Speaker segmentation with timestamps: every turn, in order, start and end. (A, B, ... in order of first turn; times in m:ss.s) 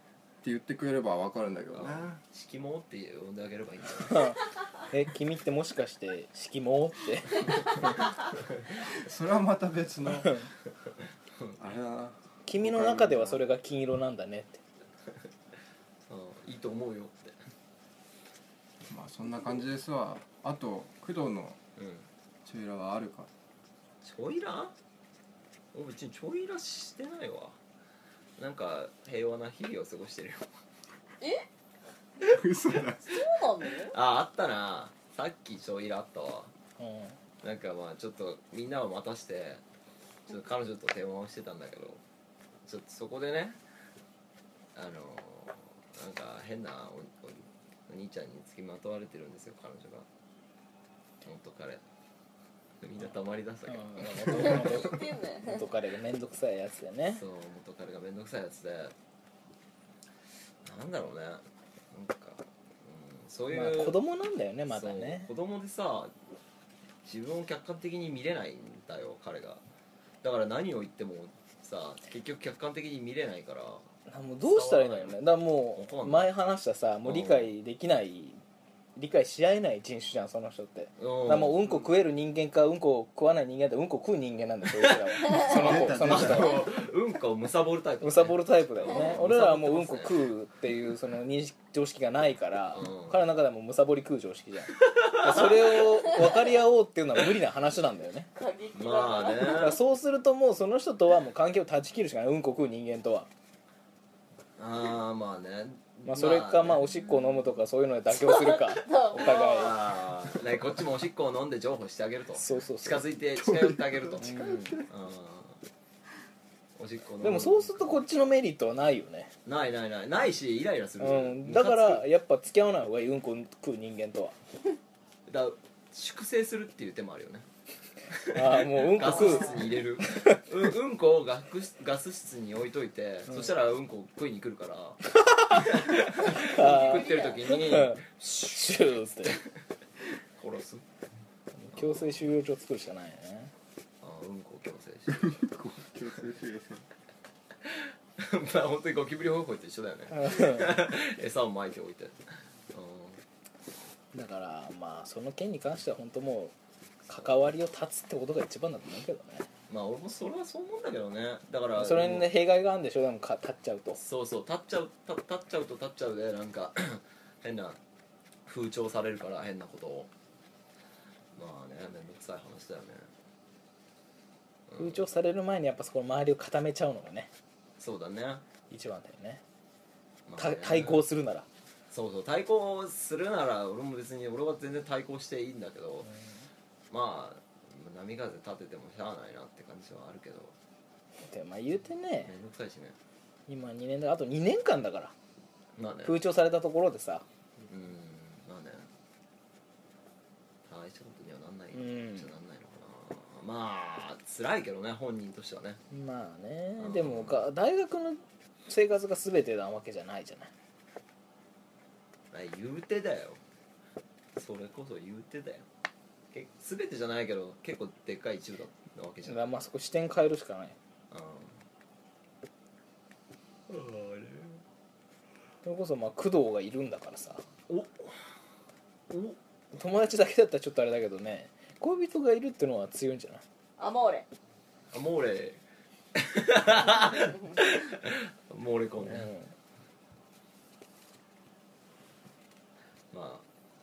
0:00.4-0:02.2 A
0:01.7-0:04.4 B
0:04.1-0:04.4 C
0:04.9-0:08.0 C
0:08.8-0:10.5 A
0:11.6-0:13.4 A
0:12.4-0:14.6 C
0:16.1-0:17.4 B
0:18.8-0:21.6 A
0:21.8-0:22.0 B
0:22.4-0:23.3 A
0:24.0-0:24.7 B
0:25.7-0:27.6 B
0:28.4-0:30.5 B
0:31.2-0:31.4 D
0:32.2-0:33.2 A
0:33.0-0:34.0 D
0:33.8-0:36.5 B
0:36.8-0:37.1 C
0:37.4-0:39.6 B
0:40.3-0:42.0 B
0:42.6-0:43.6 B
0:44.7-0:50.0 B
0:51.2-0:51.8 B
0:52.8-0:54.8 B
0:53.7-0:57.2 C
0:54.3-0:55.7 D
0:57.1-0:58.9 B
1:00.6-1:04.0 B
1:03.5-1:05.3 C
1:04.7-1:06.1 B
1:07.0-1:09.6 B
1:10.2-1:13.9 B
1:14.1-1:18.4 C
1:14.4-1:15.2 B
1:15.7-1:16.3 B
1:17.0-1:17.5 B
1:19.0-1:26.6 C
1:21.0-1:21.7 B
1:24.7-1:30.2 B
1:25.4-1:26.6 A
1:28.0-1:38.3 C
1:32.7-1:33.2 B
1:34.8-1:36.2 B
1:38.3-1:39.8 D
1:38.7-1:39.8 B
1:39.4-1:43.3 C
1:44.6-1:46.9 B
1:46.0-1:49.8 C
1:48.2-1:49.9 D
1:49.1-1:55.6 B
1:52.4-1:53.0 C
1:53.4-1:54.8 A
1:54.2-1:54.8 C
1:56.8-1:57.8 B
1:57.2-1:59.3 C
1:59.4-2:02.0 B
2:01.0-2:04.4 C
2:05.3-2:07.4 B
2:08.1-2:18.0 B
2:08.3-2:10.4 C
2:09.0-2:09.6 D
2:15.5-2:19.4 C
2:16.3-2:17.6 D
2:20.4-2:20.8 B
2:21.6-2:23.5 C
2:21.7-2:22.3 B
2:24.0-2:25.4 B
2:25.1-2:26.8 A
2:27.6-2:33.2 B
2:30.2-2:30.6 C
2:34.1-2:36.5 C
2:37.1-2:39.5 C
2:39.7-2:42.3 B
2:41.8-2:44.0 C
2:44.0-2:47.8 B
2:48.5-2:50.1 B
2:51.3-2:53.1 B
2:54.7-2:55.0 B
2:54.8-2:57.3 C
2:57.8-2:58.4 B
2:58.7-2:59.4 C
3:00.2-3:01.0 B
3:00.4-3:01.4 C
3:01.9-3:06.1 B
3:06.9-3:10.5 B
3:11.2-3:12.3 C
3:12.2-3:13.0 B
3:13.5-3:15.1 C
3:15.8-3:16.2 B
3:16.0-3:17.2 C
3:17.6-3:18.9 B
3:20.7-3:25.8 B
3:21.7-3:22.3 C
3:25.9-3:30.5 C
3:26.8-3:27.4 B
3:32.3-3:33.4 B
3:34.4-3:35.7 B
3:36.3-3:39.5 B
3:39.2-3:40.7 C
3:41.1-3:41.6 B
3:43.7-3:44.6 B
3:45.6-3:47.4 C
3:47.7-3:48.2 B
3:49.1-3:49.4 B
3:49.7-3:53.4 C
3:53.8-3:54.2 D
3:54.9-3:55.6 B
3:56.1-3:59.3 B
3:59.0-3:59.5 C
4:03.1-4:03.4 B